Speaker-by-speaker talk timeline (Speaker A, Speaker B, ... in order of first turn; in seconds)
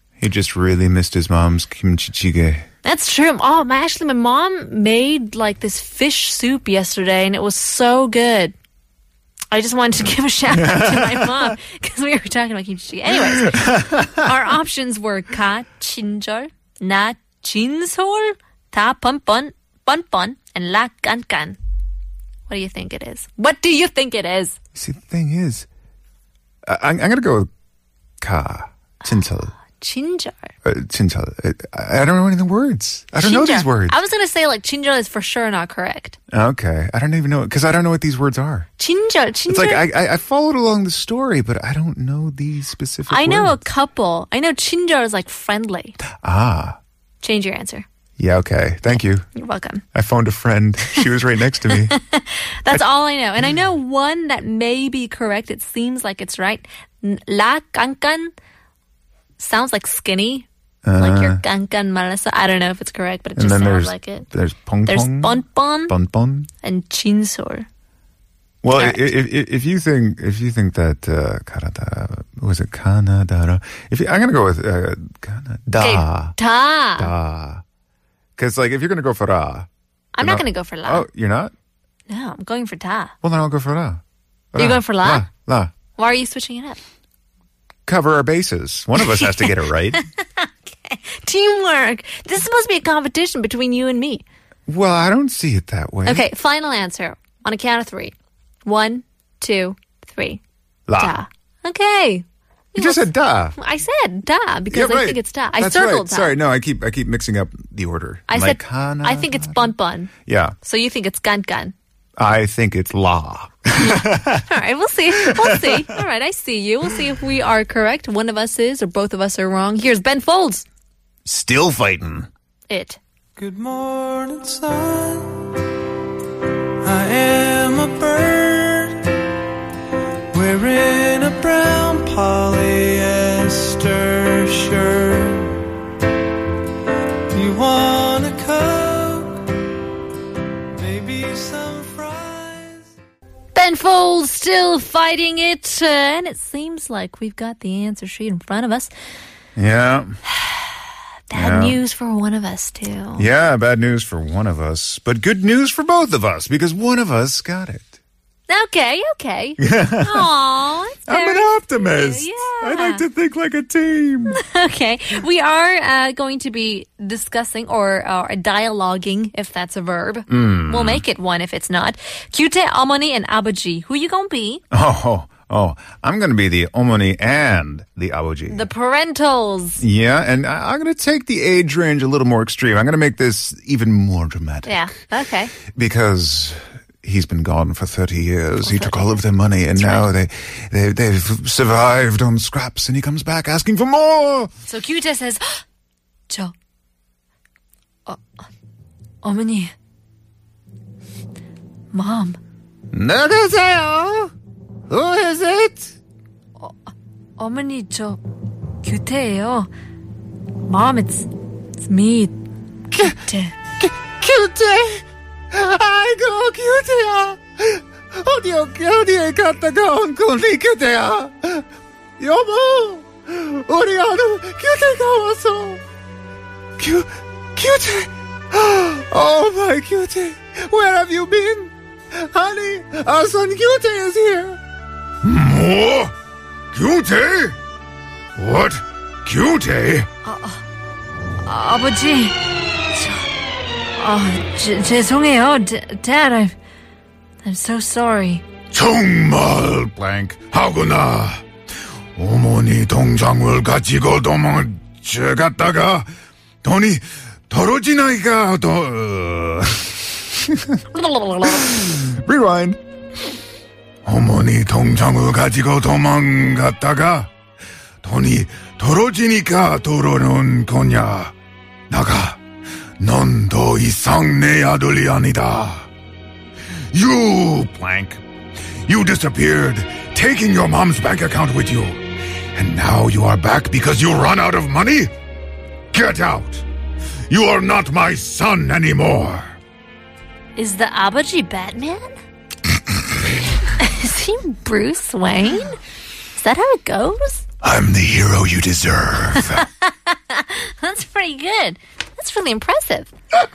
Speaker A: 0.2-2.6, 10.5-11.5, 13.3-14.3, 24.7-25.7, 26.6-27.5, 28.2-29.5, 30.6-34.0, 36.3-38.7, 39.5-43.6, 46.2-46.8, 48.2-49.2, 49.9-51.9, 60.8-61.4, 63.4-66.5, 68.6-76.3, 77.0-77.6, 78.4-79.7, 80.2-81.5, 83.2-84.0, 84.5-85.7, 87.8-90.0, 94.7-96.2, 100.9-101.2, 102.7-103.5, 104.7-109.7, 110.2-110.5, 112.2-114.5, 115.1-115.9, 121.2-122.3, 149.6-150.1, 151.3-151.8, 153.2-158.0, 159.6-160.3, 161.1-164.4, 170.3-171.0, 174.7-178.7, 179.8-184.9, 185.7-194.5, 202.9-204.3, 204.9-205.9, 213.8-221.6, 222.2-225.8, 226.8-234.6, 235.2-236.1, 236.7-237.6, 238.4-240.1, 248.7-251.4, 252.2-256.1, 256.6-262.8, 264.0-267.3, 268.0-271.3, 271.9-272.4, 273.0-275.9, 276.9-278.2, 278.8-282.0, 282.5-285.1, 285.9-286.6, 287.3-289.5, 297.6-299.6
Speaker B: 2.8-8.5, 9.5-21.6, 22.5-24.6, 29.8-30.5, 33.2-36.2, 38.8-39.9, 43.1-46.0, 47.2-47.9, 49.3-49.8, 51.7-58.3, 59.4-64.3, 64.8-65.9, 66.6-67.7, 68.7-69.1, 75.8-77.1, 80.1-81.1, 82.1-83.1, 84.5-85.3, 86.0-86.8, 89.1-89.5, 90.2-94.2, 96.0-98.1, 98.6-100.4, 101.0-106.3, 108.3-110.1, 110.6-111.7, 113.8-120.7, 122.7-123.0, 143.5-148.9, 151.3-153.3, 158.5-163.0, 164.3-174.6, 178.5-179.8, 184.7-185.5, 188.6-189.2, 189.7-190.1, 194.7-195.6, 196.3-196.5, 199.2-199.7, 201.9-202.4, 206.6-208.2, 208.8-209.7, 210.6-212.3, 212.9-213.5, 240.2-240.6, 241.4-242.4, 242.9-243.2, 243.9-246.6, 247.4-248.4, 261.2-261.6, 290.6-292.1, 293.6-295.8, 296.3-297.4, 299.6-303.1
Speaker C: 123.4-125.4, 126.8-129.0, 130.3-135.5, 137.3-139.4, 140.7-142.9